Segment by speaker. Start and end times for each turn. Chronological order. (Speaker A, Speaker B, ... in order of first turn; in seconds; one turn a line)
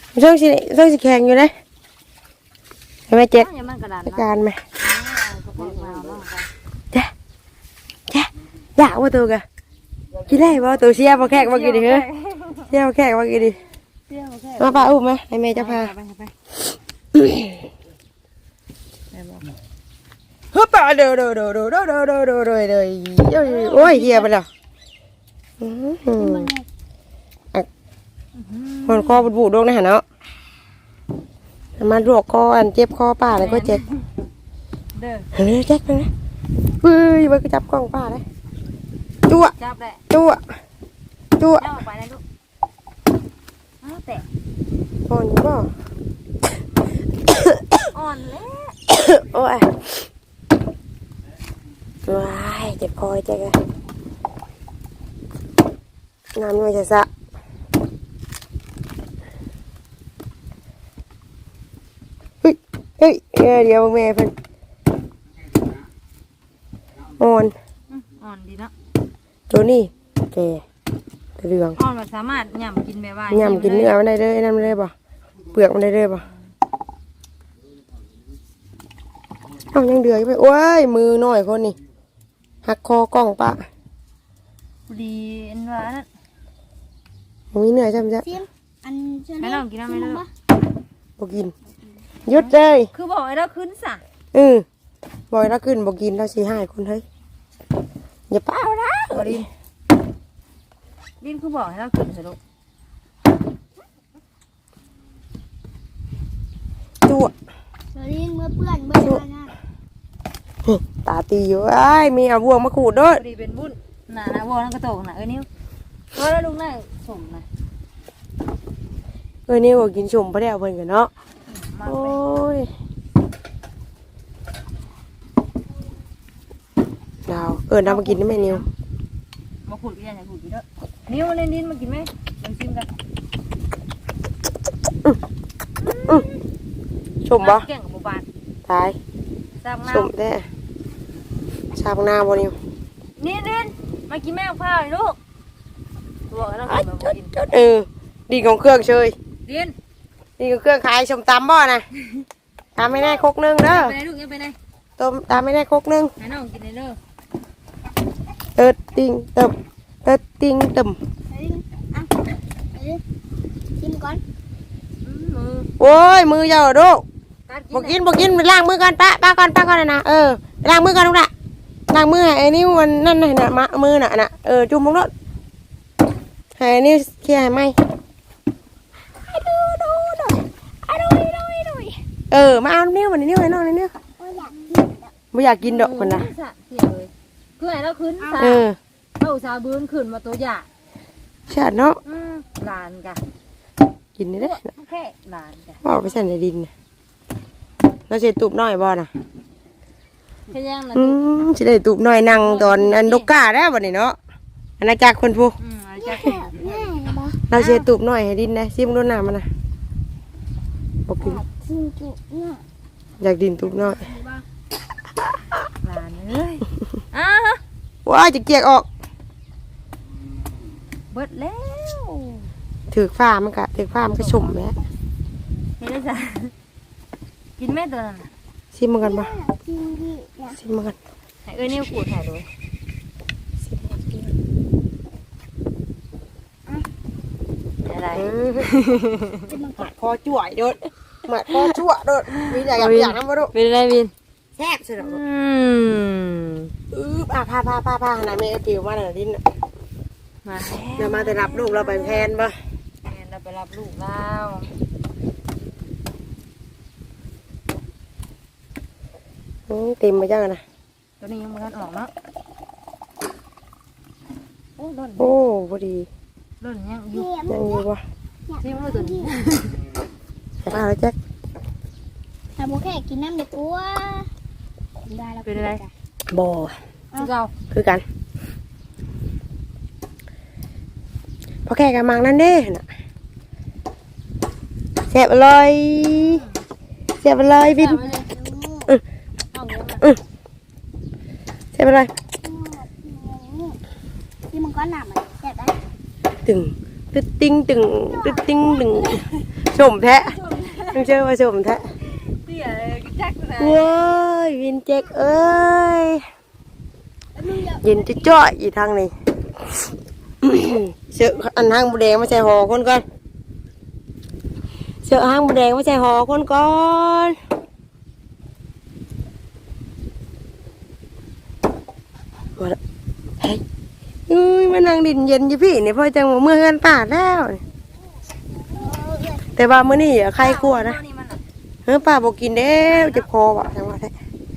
Speaker A: 0.1-1.5
Speaker A: 3.1-3.5
Speaker B: 3.3-4.3
Speaker A: 4.0-4.6
Speaker B: 4.8-6.5
Speaker A: 8.1-9.4
Speaker A: 10.3-12.0
Speaker B: 11.2-12.7
Speaker A: 12.7-13.6
Speaker B: 14.1-14.9
Speaker A: 14.6-15.9
Speaker B: 15.6-16.3
Speaker A: 17.1-17.6
Speaker B: 19.1-19.5
Speaker A: 20.5-24.5
Speaker B: 23.4-24.3
Speaker A: 25.6-26.5
Speaker C: 26.1-26.6
Speaker B: 28.3-29.2
Speaker A: 28.9-30.0
Speaker A: 31.8-33.8
Speaker B: 33.3-34.0
Speaker B: 34.9-35.3
Speaker A: 35.3-36.1
Speaker A: 36.8-38.2
Speaker A: 39.3-39.5
Speaker B: 39.5-40.0
Speaker A: 40.1-40.4
Speaker A: 41.4-41.7
Speaker B: 41.6-42.2
Speaker B: 43.8-44.2
Speaker A: 45.1-45.7
Speaker A: 47.3-47.8
Speaker B: 47.9-48.8
Speaker A: 48.9-50.0
Speaker A: 52.0-53.6
Speaker A: 56.3-57.1
Speaker A: 62.4-64.3
Speaker A: 67.2-67.5
Speaker B: 67.9-68.7
Speaker A: 69.5-70.6
Speaker A: 71.4-71.8
Speaker B: 71.8-74.0
Speaker A: 73.3-74.9
Speaker A: 75.5-76.2
Speaker A: 79.7-81.8
Speaker A: 82.6-83.6
Speaker B: 84.9-86.1
Speaker A: 87.5-88.3
Speaker C: 88.2-90.3
Speaker B: 89.4-90.2
Speaker A: 91.2-91.5
Speaker A: 92.2-92.9
Speaker B: 92.3-94.0
Speaker A: 94.3-94.6
Speaker A: 95.3-97.0
Speaker A: 98.3-99.5
Speaker B: 98.9-99.4
Speaker B: 101.2-102.4
Speaker A: 107.0-107.3
Speaker C: 107.9-109.5
Speaker A: 110.7-113.2
Speaker B: 113.1-115.5
Speaker B: 116.1-117.4
Speaker A: 119.5-121.1
Speaker B: 121.5-122.2
Speaker A: 121.8-122.7
Speaker A: 127.3-128.6
Speaker B: 127.8-128.7
Speaker B: 129.7-132.9
Speaker B: 135.8-136.4
Speaker A: 137.2-137.7
Speaker B: 137.4-138.2
Speaker A: 138.7-139.0
Speaker B: 139.6-140.1
Speaker A: 139.9-140.4
Speaker A: 141.7-142.5
Speaker B: 143.2-145.2
Speaker B: 146.3-147.3
Speaker A: 146.7-149.1
Speaker B: 149.4-149.7
Speaker A: 150.4-151.8
Speaker A: 152.8-153.9
Speaker C: 152.9-153.2
Speaker B: 153.6-154.6
Speaker A: 155.0-156.1
Speaker B: 156.2-157.0
Speaker A: 158.6-161.0
Speaker C: 161.3-162.2
Speaker C: 162.7-163.0
Speaker C: 163.8-164.2
Speaker B: 165.0-165.7
Speaker A: 165.8-167.0
Speaker B: 167.5-168.0
Speaker A: 167.7-171.3
Speaker A: 171.9-175.1
Speaker A: 176.6-177.7
Speaker B: 179.2-182.0
Speaker A: 182.3-183.9
Speaker C: 184.2-185.1
Speaker A: 185.3-186.3
Speaker B: 185.6-188.6
Speaker C: 188.2-188.6
Speaker A: 188.4-188.8
Speaker B: 189.2-190.7
Speaker A: 191.5-192.0
Speaker B: 192.0-193.2
Speaker A: 194.2-194.6
Speaker B: 194.3-196.2
Speaker A: 195.8-196.7
Speaker A: 198.1-199.1
Speaker B: 200.5-201.2
Speaker A: 200.9-204.2
Speaker B: 202.3-203.3
Speaker A: 204.8-205.6
Speaker B: 205.6-206.9
Speaker C: 206.0-207.4
Speaker A: 207.5-209.5
Speaker B: 207.5-207.8
Speaker A: 211.1-211.4
Speaker C: 211.2-212.6
Speaker A: 213.2-214.1
Speaker B: 213.6-214.4
Speaker B: 215.8-217.6
Speaker A: 218.1-218.9
Speaker B: 221.1-222.5
Speaker A: 222.9-224.7
Speaker B: 224.1-224.6
Speaker B: 225.8-226.5
Speaker B: 227.6-228.3
Speaker A: 228.7-229.3
Speaker C: 229.0-230.6
Speaker A: 230.5-230.9
Speaker B: 231.4-232.5
Speaker A: 233.6-234.3
Speaker B: 237.8-239.4
Speaker A: 238.1-238.7
Speaker C: 239.5-239.8
Speaker A: 239.8-243.5
Speaker B: 241.5-241.7
Speaker B: 242.3-244.1
Speaker A: 244.6-245.2
Speaker B: 245.0-246.7
Speaker A: 246.9-249.4
Speaker B: 250.4-252.3
Speaker A: 250.9-252.6
Speaker B: 253.0-254.7
Speaker A: 259.7-260.6
Speaker B: 261.2-262.1
Speaker B: 264.8-265.3
Speaker A: 265.2-266.1
Speaker B: 266.6-267.3
Speaker C: 267.1-267.9
Speaker A: 267.5-268.0
Speaker C: 268.5-269.3
Speaker B: 268.6-269.8
Speaker A: 270.6-271.1
Speaker C: 272.6-274.3
Speaker C: 275.1-275.9
Speaker B: 275.4-275.8
Speaker A: 276.3-276.8
Speaker B: 277.1-277.5
Speaker A: 277.7-278.0
Speaker A: 281.7-282.8
Speaker A: 285.1-286.4
Speaker B: 286.0-286.5
Speaker A: 287.2-288.0
Speaker B: 287.8-288.3
Speaker C: 287.8-288.9
Speaker B: 289.5-290.0
Speaker A: 291.7-292.1
Speaker C: 292.4-293.8
Speaker C: 294.5-295.8
Speaker A: 296.4-300.4
Speaker C: 298.1-299.1
Speaker B: 300.1-301.1
Speaker A: 300.9-301.9
Speaker B: 302.1-303.8
Speaker A: 303.6-306.2
Speaker C: 307.3-308.4
Speaker A: 307.8-309.1
Speaker A: 310.4-313.0
Speaker A: 315.0-317.4
Speaker A: 324.3-327.6
Speaker C: 328.6-329.4
Speaker A: 329.5-331.0
Speaker B: 330.4-331.4
Speaker A: 331.9-334.1
Speaker B: 332.7-333.3